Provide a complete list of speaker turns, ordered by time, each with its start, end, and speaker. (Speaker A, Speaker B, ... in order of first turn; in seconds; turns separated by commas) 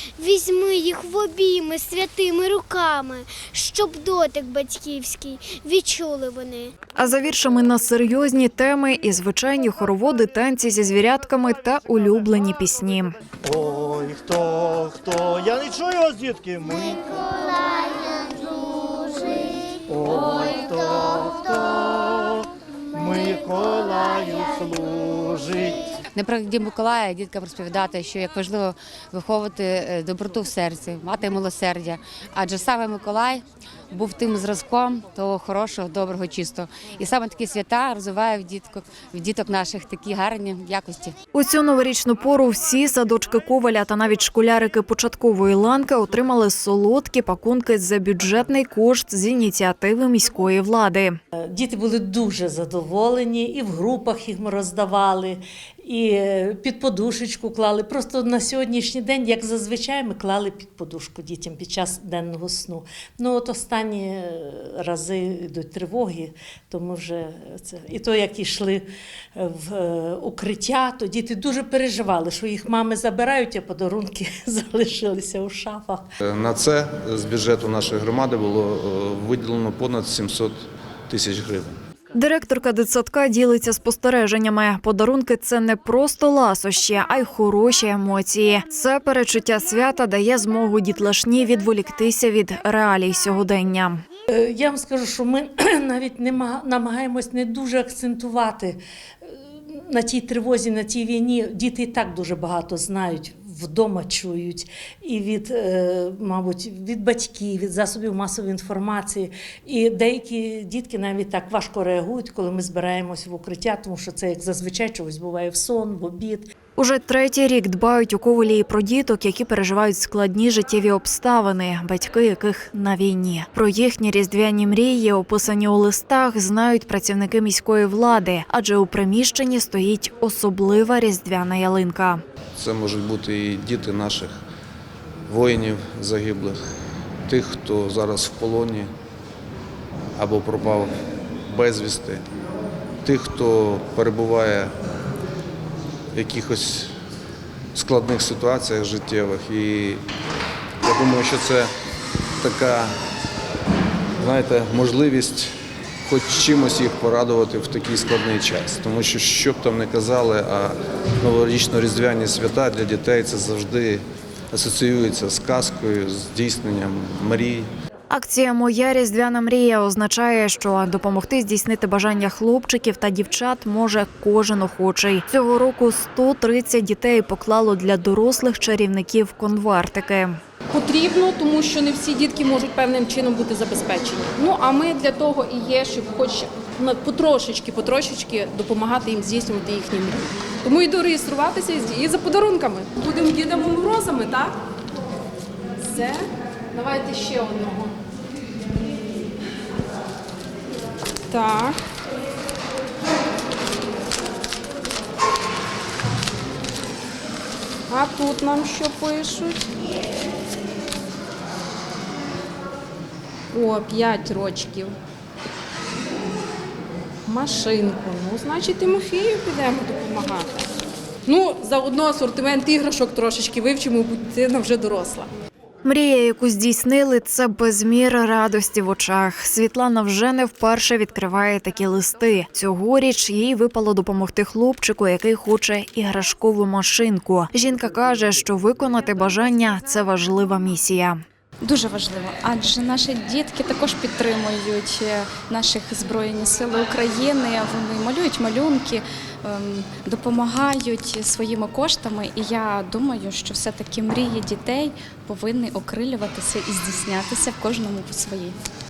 Speaker A: 0.2-6.7, Speaker B: 7.0-13.1, Speaker C: 13.4-25.9, Speaker D: 26.1-41.2, Speaker B: 41.3-51.2, Speaker E: 51.5-76.1, Speaker F: 76.2-81.8, Speaker B: 82.1-94.0, Speaker E: 94.3-116.5, Speaker B: 116.8-132.2, Speaker F: 132.6-134.4, Speaker F: 135.3-136.6, Speaker F: 137.3-138.9, Speaker F: 140.2-140.9, Speaker F: 141.5-142.2, Speaker F: 143.1-144.7, Speaker F: 146.1-146.9, Speaker F: 147.8-150.0, Speaker F: 150.8-151.7, Speaker F: 152.4-152.9, Speaker F: 154.2-155.5, Speaker F: 156.1-167.7, Speaker B: 168.1-180.4, Speaker G: 180.7-194.5, Speaker G: 195.8-196.2, Speaker G: 196.8-197.9, Speaker G: 201.3-201.7, Speaker G: 207.9-209.6, Speaker G: 213.5-214.9, Speaker G: 217.3-220.5, Speaker G: 221.3-225.3, Speaker B: 225.8-241.2, Speaker H: 241.6-258.6